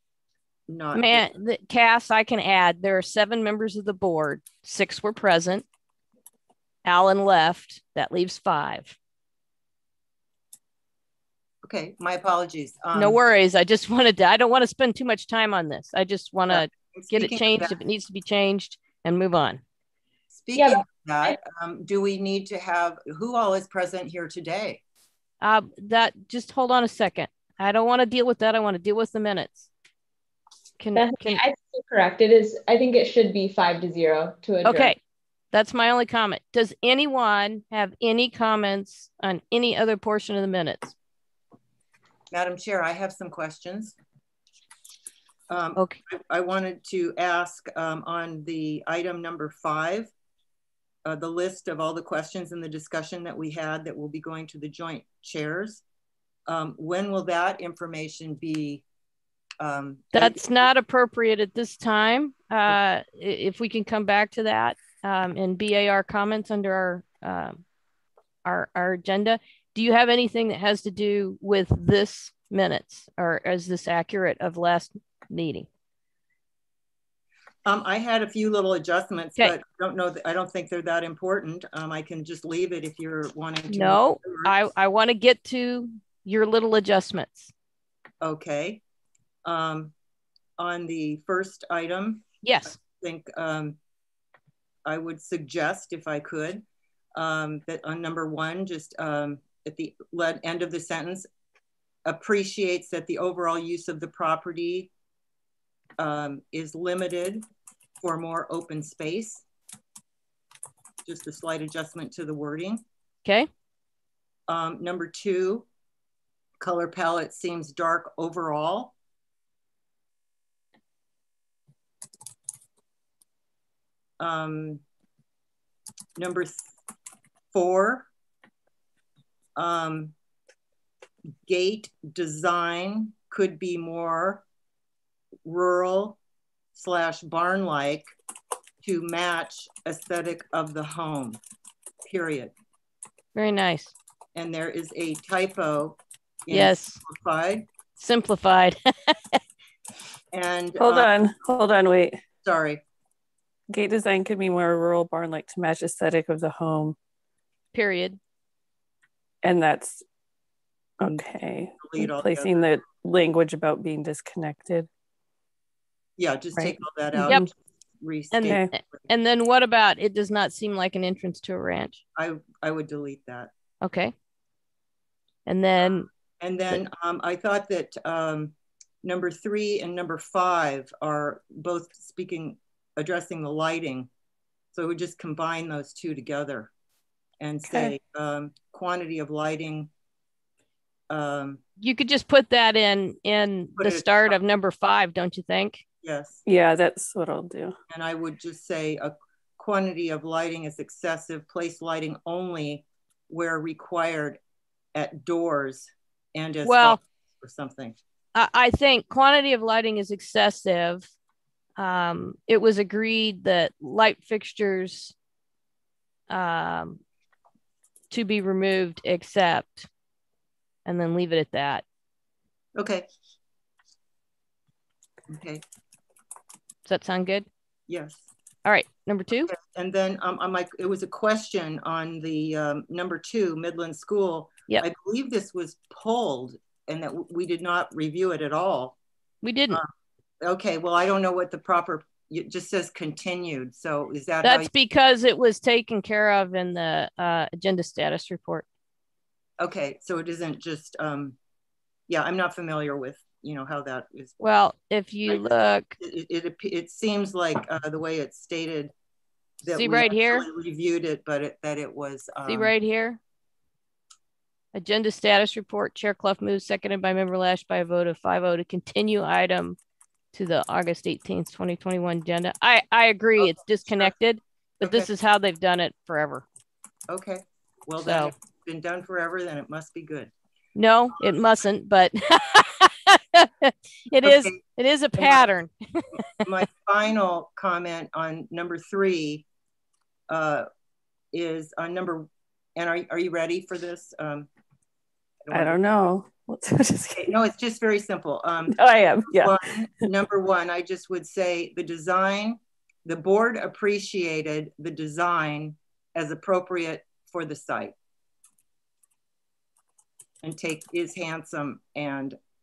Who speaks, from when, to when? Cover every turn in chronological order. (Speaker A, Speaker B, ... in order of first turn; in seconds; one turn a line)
Speaker A: 0.7-1.2
Speaker B: 0.9-5.7
Speaker B: 6.8-9.0
Speaker A: 11.6-13.2
Speaker B: 12.9-19.6
Speaker A: 16.5-17.8
Speaker A: 20.3-24.8
Speaker C: 20.5-21.4
Speaker B: 25.4-29.7
Speaker B: 30.8-31.4
Speaker C: 31.0-35.0
Speaker B: 34.6-35.0
Speaker B: 35.5-41.0
Speaker A: 42.3-44.0
Speaker A: 45.5-50.1
Speaker A: 51.0-55.8
Speaker A: 56.5-58.8
Speaker A: 59.6-60.4
Speaker B: 60.1-67.6
Speaker B: 68.5-75.7
Speaker A: 77.7-84.5
Speaker B: 83.7-87.5
Speaker A: 88.2-88.8
Speaker A: 89.5-89.9
Speaker A: 90.6-93.8
Speaker B: 92.4-92.8
Speaker A: 94.8-96.6
Speaker A: 97.2-101.3
Speaker A: 102.0-104.9
Speaker A: 106.0-107.5
Speaker A: 108.0-109.4
Speaker A: 111.0-112.8
Speaker A: 114.5-115.7
Speaker A: 116.6-118.9
Speaker A: 124.2-124.8
Speaker A: 126.2-126.7
Speaker A: 127.5-128.1
Speaker A: 129.6-130.1
Speaker A: 131.5-134.4
Speaker A: 135.4-136.2
Speaker A: 136.8-138.1
Speaker A: 138.8-141.4
Speaker A: 142.0-142.5
Speaker B: 143.3-143.9
Speaker A: 144.4-147.7
Speaker B: 146.5-147.0
Speaker B: 148.0-149.4
Speaker A: 150.3-151.1
Speaker D: 150.8-152.2
Speaker A: 152.4-152.8
Speaker D: 153.7-157.0
Speaker B: 157.7-158.2
Speaker D: 159.4-160.0
Speaker D: 161.0-164.9
Speaker A: 161.8-162.7
Speaker A: 166.2-167.5
Speaker D: 166.6-167.5
Speaker A: 168.0-169.0
Speaker B: 168.3-172.0
Speaker D: 168.5-168.7
Speaker A: 172.2-173.5
Speaker B: 173.8-174.1
Speaker B: 175.5-176.1
Speaker A: 176.4-184.1
Speaker A: 184.7-186.7
Speaker A: 187.4-189.9
Speaker D: 187.6-187.9
Speaker A: 191.1-191.6
Speaker B: 191.8-195.8
Speaker A: 193.8-194.3
Speaker A: 196.0-196.4
Speaker D: 196.5-197.8
Speaker A: 197.9-204.4
Speaker A: 204.9-208.0
Speaker B: 206.6-207.0
Speaker B: 208.3-211.1
Speaker B: 211.8-215.1
Speaker B: 216.3-217.0
Speaker B: 218.1-219.9
Speaker B: 220.9-221.8
Speaker A: 222.8-223.1
Speaker A: 225.3-225.6
Speaker B: 226.9-227.5
Speaker A: 227.9-228.3
Speaker B: 228.7-229.5
Speaker A: 229.5-239.0
Speaker B: 239.4-239.8
Speaker A: 240.4-244.7
Speaker B: 244.4-248.7
Speaker A: 249.6-251.4
Speaker A: 252.1-254.4
Speaker B: 254.4-256.0
Speaker A: 256.0-258.9
Speaker A: 259.6-262.7
Speaker B: 259.7-260.5
Speaker B: 262.5-263.2
Speaker B: 264.7-269.8
Speaker B: 270.3-276.4
Speaker A: 273.4-274.1
Speaker A: 274.8-275.1
Speaker A: 277.1-280.3
Speaker B: 278.0-278.3
Speaker B: 280.8-286.2
Speaker A: 284.2-284.6
Speaker A: 285.2-285.4
Speaker A: 286.4-289.4
Speaker A: 290.3-290.7
Speaker A: 291.3-294.5
Speaker A: 295.4-295.8
Speaker D: 295.5-297.4
Speaker A: 297.2-298.8
Speaker D: 298.7-300.1
Speaker A: 299.4-307.9
Speaker A: 310.4-312.4